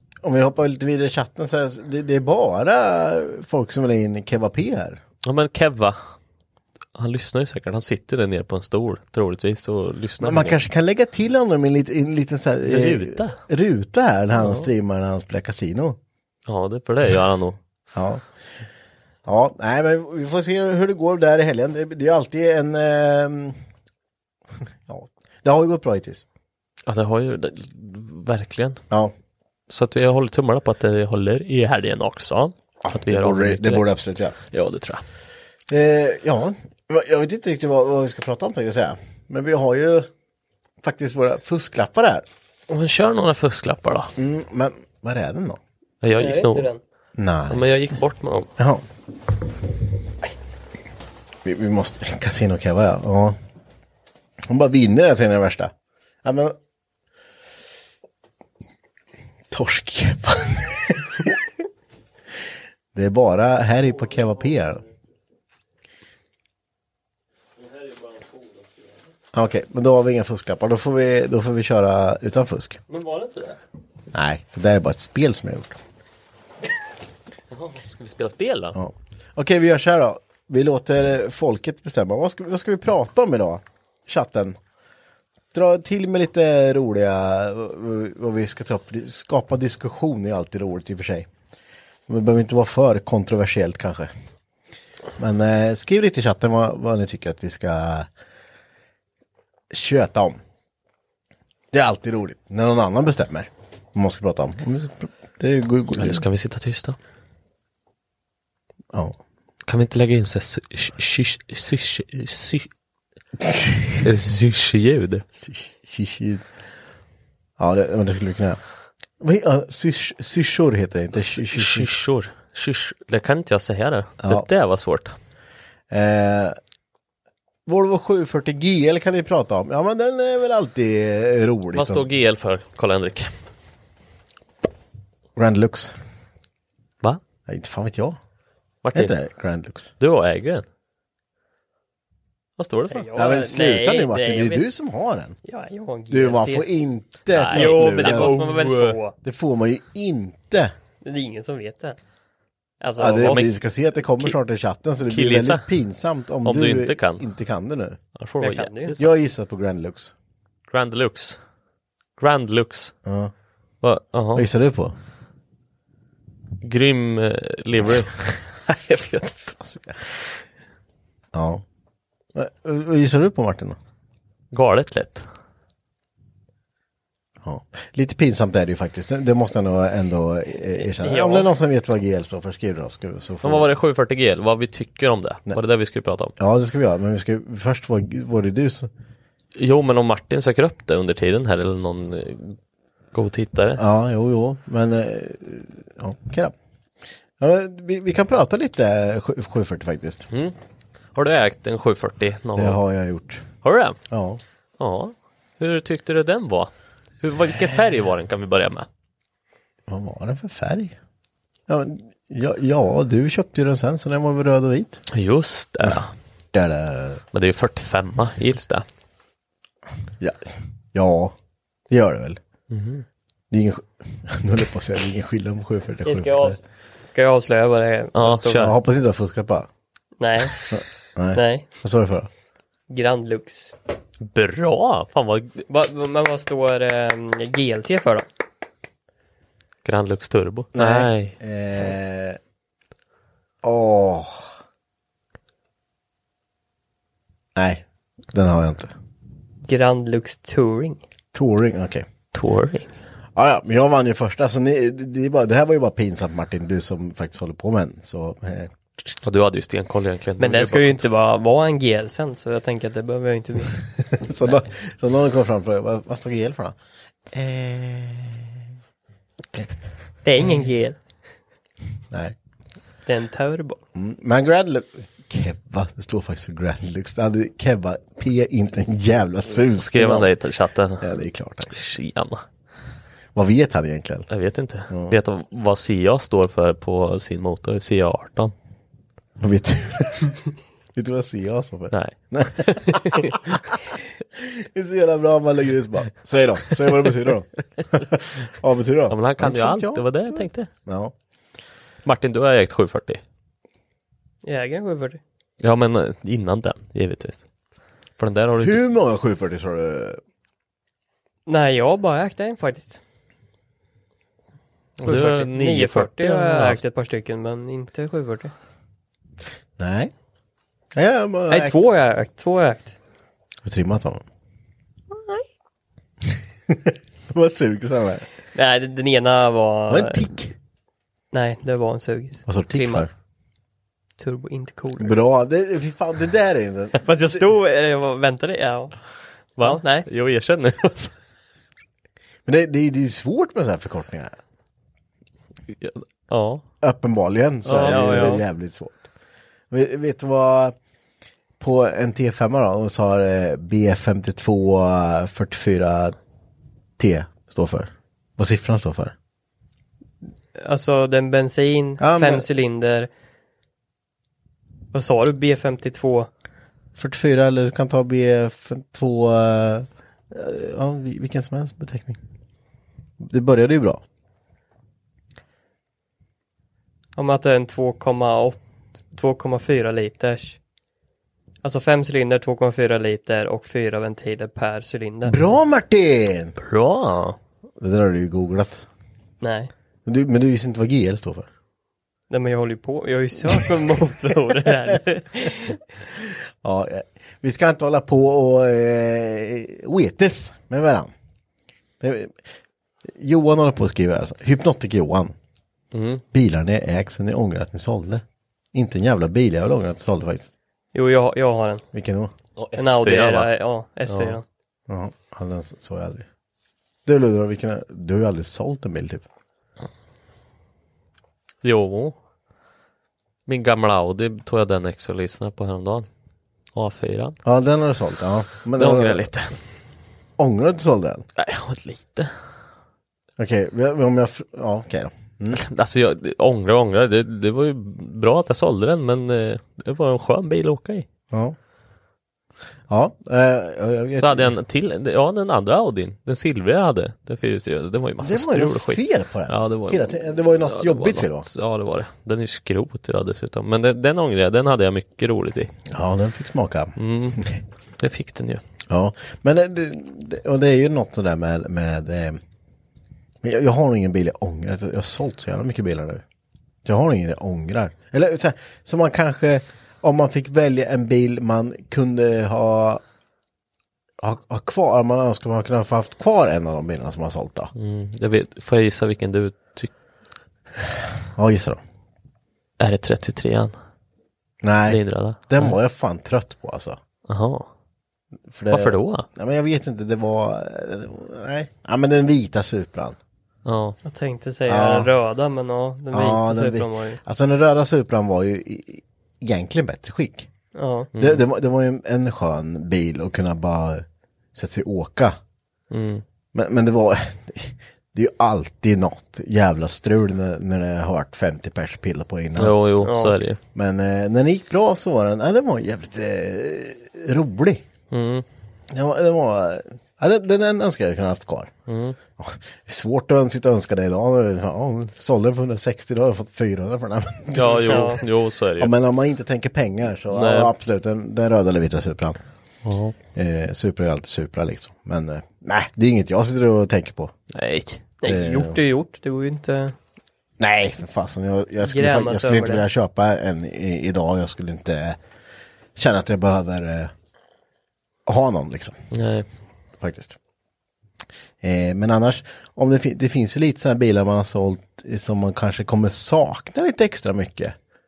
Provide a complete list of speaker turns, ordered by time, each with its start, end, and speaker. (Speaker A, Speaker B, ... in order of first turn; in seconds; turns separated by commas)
Speaker A: 0.2-5.0, Speaker B: 5.2-6.0, Speaker B: 7.0-10.6, Speaker A: 10.2-16.0, Speaker B: 12.7-13.4, Speaker B: 14.4-14.7, Speaker B: 16.5-17.6, Speaker A: 17.9-18.2, Speaker A: 19.2-23.6, Speaker A: 24.9-26.2, Speaker B: 26.9-28.8, Speaker B: 29.7-33.9, Speaker A: 32.8-34.4, Speaker B: 34.5-35.0, Speaker A: 35.7-40.1, Speaker A: 40.8-42.3, Speaker B: 42.7-44.1, Speaker A: 44.2-45.6, Speaker B: 46.0-46.7, Speaker C: 46.2-46.8, Speaker A: 47.2-47.7, Speaker B: 47.5-48.5, Speaker A: 48.6-48.8, Speaker A: 51.5-53.4, Speaker A: 54.4-55.7, Speaker A: 56.2-56.6, Speaker A: 59.5-61.4, Speaker A: 62.9-64.8, Speaker B: 64.2-64.5, Speaker B: 67.6-68.9, Speaker A: 69.3-72.8, Speaker B: 72.9-73.6, Speaker A: 74.1-75.8, Speaker B: 77.5-78.8, Speaker A: 78.8-84.6, Speaker A: 85.5-91.3, Speaker A: 92.1-94.1, Speaker A: 95.2-98.1, Speaker A: 99.7-100.4, Speaker A: 101.7-106.2, Speaker B: 105.9-107.0, Speaker A: 108.9-109.2, Speaker B: 109.7-112.7, Speaker A: 113.5-113.9, Speaker B: 114.0-115.2, Speaker A: 115.3-116.4, Speaker A: 117.6-118.6, Speaker A: 119.2-121.9, Speaker B: 121.2-125.2, Speaker A: 125.9-126.6, Speaker A: 127.7-132.1, Speaker B: 131.7-133.3, Speaker A: 135.4-135.9, Speaker A: 137.5-138.2, Speaker B: 138.8-139.2, Speaker A: 138.9-139.9, Speaker B: 140.0-140.7, Speaker B: 142.6-143.1, Speaker C: 142.9-144.6, Speaker A: 143.2-145.4, Speaker C: 145.4-146.7, Speaker A: 146.1-148.5, Speaker B: 147.3-149.0, Speaker C: 147.5-149.2, Speaker A: 149.2-150.7, Speaker C: 151.0-152.0, Speaker C: 152.8-153.5, Speaker A: 153.0-158.0, Speaker B: 153.2-153.5, Speaker B: 155.1-155.7, Speaker B: 156.4-157.3, Speaker B: 158.2-159.1, Speaker C: 158.4-159.0, Speaker A: 159.0-160.1, Speaker B: 160.7-161.4, Speaker B: 162.2-162.9, Speaker A: 163.1-163.3, Speaker B: 163.8-164.5, Speaker A: 164.4-164.9, Speaker B: 166.6-169.6, Speaker A: 169.6-169.9, Speaker A: 171.3-171.6, Speaker A: 172.3-173.8, Speaker B: 174.5-175.3, Speaker A: 177.4-183.7, Speaker C: 181.0-181.5, Speaker B: 183.4-186.3, Speaker A: 186.4-188.9, Speaker B: 189.6-192.6, Speaker B: 193.1-193.8, Speaker A: 193.8-196.6, Speaker A: 197.4-200.3, Speaker B: 201.2-202.8, Speaker A: 202.6-203.5, Speaker B: 203.6-204.0, Speaker A: 204.1-204.4, Speaker B: 204.8-206.7, Speaker B: 207.2-208.9, Speaker A: 209.9-211.0, Speaker A: 211.7-215.0, Speaker B: 215.1-216.1, Speaker A: 216.5-217.2, Speaker B: 217.3-218.8, Speaker A: 220.2-221.3, Speaker A: 221.9-222.4, Speaker B: 222.7-223.1, Speaker A: 223.5-226.6, Speaker C: 226.1-228.7, Speaker B: 228.1-228.7, Speaker A: 228.5-229.7, Speaker C: 230.2-230.6, Speaker A: 230.7-232.3, Speaker C: 231.3-231.7, Speaker C: 232.9-233.7, Speaker B: 234.2-235.6, Speaker C: 235.7-238.3, Speaker B: 239.8-241.4, Speaker A: 240.7-242.4, Speaker A: 243.6-244.6, Speaker A: 247.6-248.9, Speaker C: 249.7-251.0, Speaker A: 251.3-252.1, Speaker B: 252.3-252.9, Speaker A: 253.3-258.8, Speaker B: 259.2-261.1, Speaker C: 260.4-263.8, Speaker A: 264.2-266.8, Speaker A: 267.3-268.7, Speaker C: 270.2-271.0, Speaker A: 272.1-272.4, Speaker C: 273.1-273.8, Speaker A: 273.9-280.4, Speaker B: 279.8-281.1, Speaker A: 281.0-281.8, Speaker B: 281.7-282.4, Speaker A: 283.4-284.3, Speaker B: 284.3-288.5, Speaker A: 284.9-285.2, Speaker A: 289.4-290.4, Speaker A: 290.9-293.4, Speaker B: 291.9-293.6, Speaker A: 294.4-301.1, Speaker B: 299.1-300.7, Speaker B: 302.1-303.2, Speaker C: 304.4-305.2, Speaker B: 305.6-307.5, Speaker B: 308.2-308.8, Speaker A: 308.6-310.2, Speaker C: 311.5-313.0, Speaker B: 315.0-316.8, Speaker C: 315.0-318.5, Speaker A: 319.8-320.1, Speaker A: 320.9-321.8, Speaker C: 321.5-323.0, Speaker A: 323.6-324.2, Speaker A: 326.3-328.3, Speaker C: 328.5-330.2, Speaker A: 329.9-330.6, Speaker C: 331.3-333.1, Speaker A: 332.5-333.1, Speaker C: 334.2-335.2, Speaker A: 335.0-337.4, Speaker C: 337.0-338.9, Speaker B: 339.6-341.1, Speaker C: 339.6-340.1, Speaker A: 342.4-344.4, Speaker B: 345.8-346.6, Speaker A: 346.8-349.0, Speaker B: 347.6-348.4, Speaker C: 347.8-348.4, Speaker A: 349.7-350.8, Speaker A: 351.6-356.2, Speaker A: 357.0-359.1, Speaker C: 360.6-363.1, Speaker A: 362.0-362.5, Speaker C: 364.9-366.3, Speaker A: 366.9-372.2, Speaker A: 373.2-374.0, Speaker C: 377.2-378.6, Speaker C: 379.1-380.6, Speaker C: 381.6-385.4, Speaker A: 385.3-386.6, Speaker B: 386.6-387.4, Speaker A: 387.8-388.9, Speaker C: 389.4-389.7, Speaker A: 390.1-391.5, Speaker C: 392.3-395.8, Speaker A: 396.1-401.1, Speaker A: 402.0-402.4, Speaker A: 403.1-405.4, Speaker B: 405.9-406.2, Speaker A: 406.3-410.5, Speaker C: 410.9-411.9, Speaker A: 411.9-412.3, Speaker B: 412.6-413.5, Speaker C: 412.8-414.4, Speaker B: 414.1-414.4, Speaker A: 414.9-416.3, Speaker A: 417.1-419.2, Speaker B: 421.6-422.2, Speaker B: 423.5-426.1, Speaker B: 426.8-427.4, Speaker A: 427.4-429.3, Speaker B: 428.8-429.6, Speaker A: 430.4-431.3, Speaker B: 431.4-432.3, Speaker A: 433.4-435.6, Speaker B: 435.5-441.1, Speaker A: 441.3-441.6, Speaker A: 442.9-444.5, Speaker B: 444.2-455.7, Speaker A: 448.2-451.5, Speaker A: 455.9-457.6, Speaker B: 457.0-457.4, Speaker B: 458.0-458.6, Speaker A: 458.9-462.4, Speaker A: 463.4-466.2, Speaker A: 466.9-473.0, Speaker A: 474.2-477.7, Speaker B: 477.8-479.9, Speaker A: 481.3-481.8, Speaker B: 482.8-483.8, Speaker A: 484.6-487.0, Speaker B: 484.9-485.8, Speaker B: 487.3-487.7, Speaker A: 488.5-493.2, Speaker B: 488.7-489.3, Speaker B: 493.7-494.0, Speaker C: 494.1-497.2, Speaker A: 494.7-495.1, Speaker A: 496.1-500.5, Speaker C: 500.8-501.1, Speaker B: 501.1-501.4, Speaker A: 501.2-505.4, Speaker B: 505.9-506.2, Speaker A: 506.5-512.8, Speaker B: 512.6-513.6, Speaker C: 513.0-513.4, Speaker A: 513.8-517.9, Speaker B: 518.1-518.5, Speaker A: 518.9-521.7, Speaker B: 521.9-522.2, Speaker A: 522.4-528.2, Speaker B: 527.5-528.9, Speaker C: 527.8-528.2, Speaker A: 528.8-532.4, Speaker B: 530.3-530.7, Speaker B: 532.8-533.2, Speaker A: 533.4-537.3, Speaker B: 537.5-538.0, Speaker C: 538.2-540.0, Speaker A: 538.2-538.8, Speaker A: 540.6-545.2, Speaker C: 541.8-542.9, Speaker A: 546.0-547.1, Speaker A: 548.3-549.0, Speaker B: 549.1-549.5, Speaker A: 550.0-550.4, Speaker A: 551.6-557.8